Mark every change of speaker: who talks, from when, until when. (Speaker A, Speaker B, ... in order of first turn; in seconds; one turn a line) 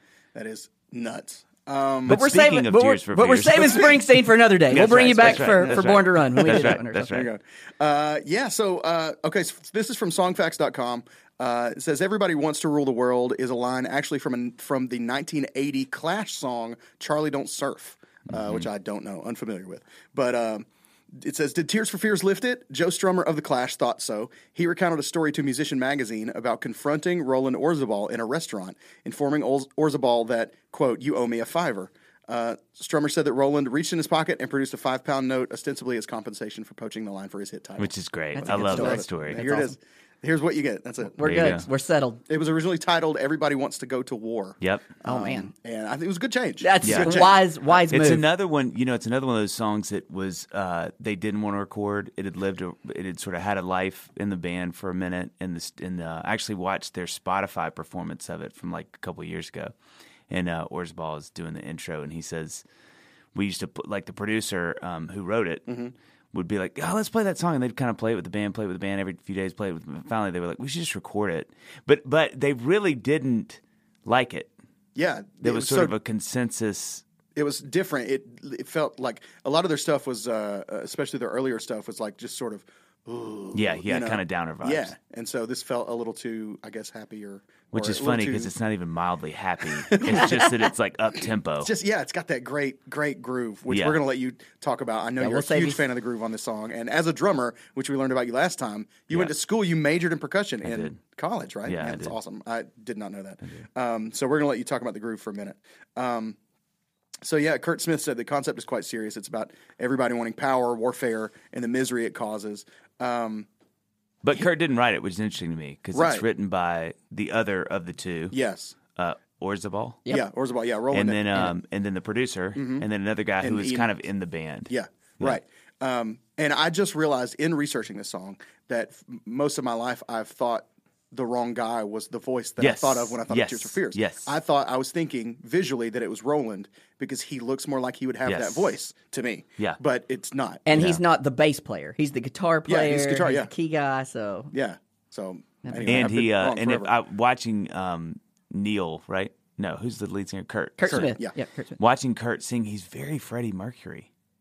Speaker A: 0.3-2.2
Speaker B: 2.0-4.0
Speaker C: 2.1-7.1
Speaker A: 3.6-3.9
Speaker B: 4.7-7.3
Speaker A: 4.8-41.6
Speaker B: 18.3-18.7
Speaker B: 37.8-39.5
Speaker C: 38.3-39.7
Speaker C: 41.2-42.2
Speaker B: 41.2-41.6
Speaker A: 42.3-47.8
Speaker B: 44.6-44.9
Speaker C: 45.0-45.5
Speaker C: 46.6-48.2
Speaker B: 46.8-47.2
Speaker B: 47.9-59.7
Speaker B: 60.3-62.6
Speaker B: 63.3-65.7
Speaker A: 65.7-65.9
Speaker B: 66.3-74.5
Speaker A: 75.0-75.9
Speaker B: 75.4-77.0
Speaker A: 77.3-88.5
Speaker B: 83.5-84.9
Speaker B: 87.7-91.7
Speaker A: 89.9-90.5
Speaker A: 91.6-106.4
Speaker B: 93.7-94.0
Speaker C: 95.2-95.8
Speaker B: 100.6-101.0
Speaker B: 101.7-102.1
Speaker A: 107.2-113.5
Speaker B: 114.2-118.3
Speaker A: 115.9-116.2
Speaker A: 118.3-118.8
Speaker B: 118.9-120.0
Speaker A: 120.1-121.5
Speaker B: 120.9-125.4
Speaker A: 122.5-122.9
Speaker A: 123.4-123.9
Speaker A: 124.7-140.6
Speaker B: 132.6-134.3
Speaker B: 138.2-138.7
Speaker C: 140.7-144.5
Speaker B: 140.7-141.0
Speaker A: 142.7-143.5
Speaker A: 144.5-146.9
Speaker C: 145.6-146.1
Speaker B: 145.9-151.1
Speaker C: 150.8-151.8
Speaker A: 150.9-151.3
Speaker B: 151.8-154.1